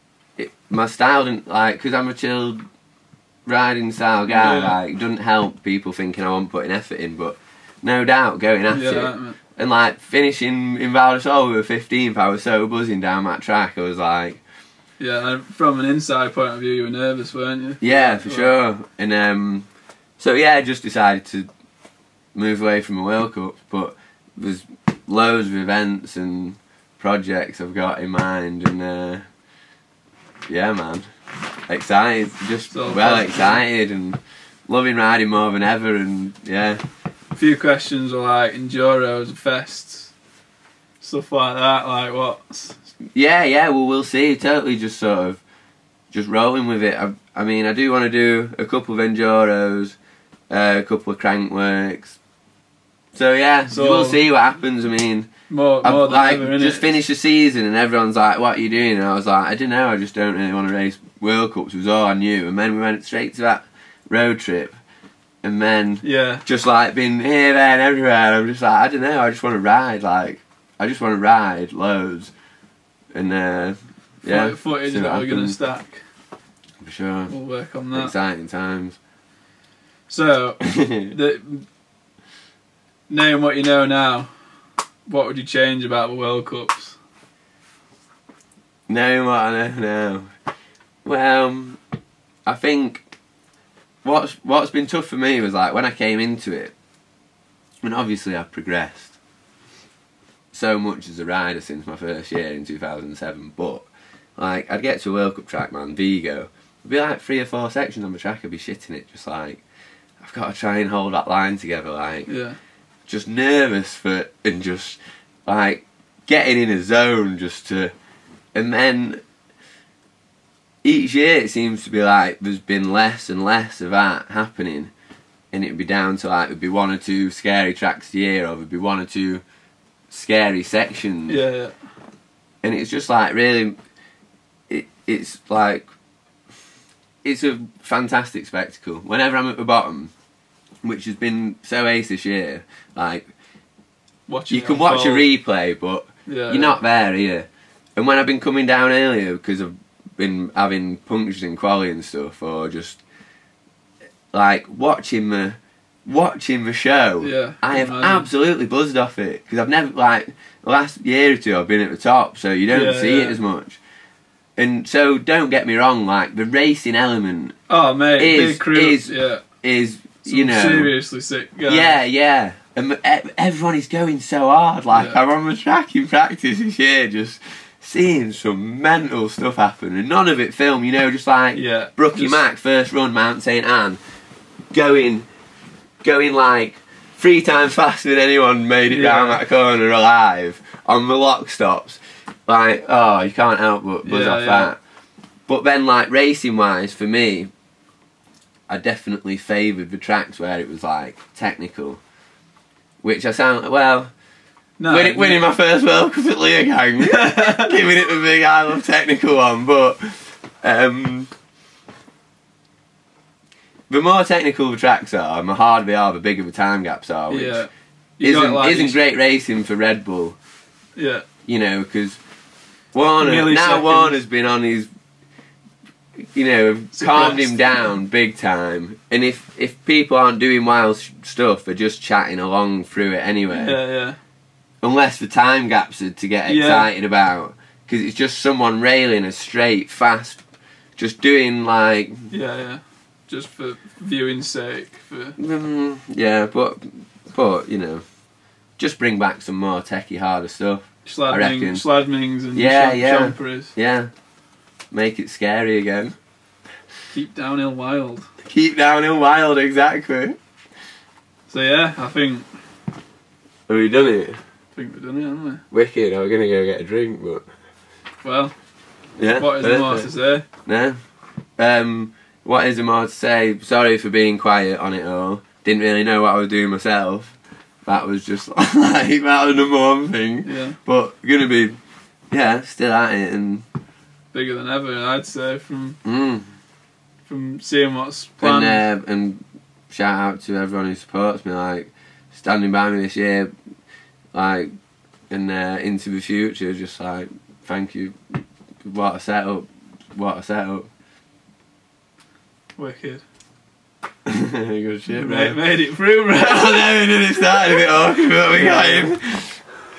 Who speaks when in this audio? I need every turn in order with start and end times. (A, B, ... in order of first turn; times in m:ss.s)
0:00.4-0:02.6 A
0:03.4-0:14.4 A
0:04.3-0:04.7 B
0:08.7-0:09.4 B
0:15.0-0:18.5 B
0:17.8-0:19.7 A
0:20.2-0:21.5 A
0:22.3-0:29.2 A
0:30.5-0:31.0 A
0:31.7-0:36.8 A
0:32.7-0:33.6 B
0:37.4-0:40.1 B
0:41.0-0:42.8 B
0:43.1-0:45.4 A
0:46.1-0:50.0 A
0:50.5-0:52.2 A
0:53.1-0:55.3 A
0:53.7-0:54.2 B
0:55.5-0:57.0 B
0:55.8-1:04.8 A
1:05.4-1:12.3 A
1:06.0-1:06.4 B
1:13.1-1:15.6 A
1:14.2-1:16.0 B
1:16.8-1:17.3 A
1:17.3-1:18.1 B
1:17.9-1:19.0 A
1:20.1-1:21.6 B
1:20.6-1:21.1 A
1:23.1-1:24.3 B
1:25.1-1:27.0 B
1:28.9-1:30.3 A
1:31.0-1:31.8 A
1:32.4-1:33.0 A
1:34.0-1:36.7 A
1:37.8-1:39.1 A
1:40.5-1:49.6 A
1:50.2-1:52.3 A
1:52.3-1:52.6 B
1:53.1-1:57.9 A
1:58.5-1:59.2 A
2:00.8-2:04.9 A
2:05.5-2:09.4 A
2:10.1-2:11.4 A
2:11.3-2:11.8 B
2:12.6-2:13.8 A
2:14.7-2:15.9 A
2:17.2-2:20.1 A
2:20.8-2:23.3 A
2:24.3-2:25.2 B
2:24.5-2:33.0 A
2:26.3-2:26.8 B
2:34.3-2:43.8 A
2:37.2-2:38.3 B
2:42.7-2:43.4 B
2:44.6-2:47.5 A
2:47.7-2:49.4 B
2:48.2-2:50.9 A
2:50.2-2:52.0 B
2:51.7-3:04.0 A
3:01.5-3:02.4 B
3:04.7-3:05.2 A
3:06.0-3:14.8 A
3:08.9-3:09.4 B
3:14.0-3:14.7 B
3:15.5-3:17.5 A
3:18.7-3:22.0 A
3:23.0-3:24.1 A
3:24.8-3:25.4 B
3:24.9-3:31.3 A
3:27.0-3:27.7 B
3:33.9-3:37.6 A
3:37.3-3:39.0 B
3:38.2-3:40.4 A
3:41.0-3:41.2 B
3:41.4-3:42.2 A
3:42.9-3:44.9 A
3:43.2-3:44.2 B
3:46.2-3:53.8 A
3:46.9-3:47.6 B
3:53.5-3:54.2 B
3:54.8-4:00.4 A
3:56.5-3:56.9 B
4:01.0-4:02.3 A
4:02.3-4:05.4 B
4:05.4-4:08.0 A
4:08.8-4:11.8 A
4:11.0-4:13.7 B
4:12.5-4:14.1 A
4:14.9-4:16.2 A
4:17.1-4:18.3 B
4:18.4-4:20.4 A
4:21.5-4:22.4 B
4:23.7-4:24.4 A
4:24.7-4:25.6 B
4:25.7-4:27.4 A
4:28.2-4:28.5 B
4:29.2-4:30.1 A
4:29.4-4:30.4 B
4:30.6-4:31.0 A
4:31.6-4:41.8 A
4:40.4-4:40.8 B
4:42.3-4:43.6 A
4:44.3-4:46.0 B
4:46.0-4:46.5 A
4:47.3-4:48.8 B
4:48.4-4:53.5 A
4:54.3-4:54.7 A
4:55.3-5:00.9 A
5:02.8-5:03.2 B
5:04.2-5:05.6 A
5:05.1-5:07.8 B
5:06.3-5:09.6 A
5:08.5-5:09.1 B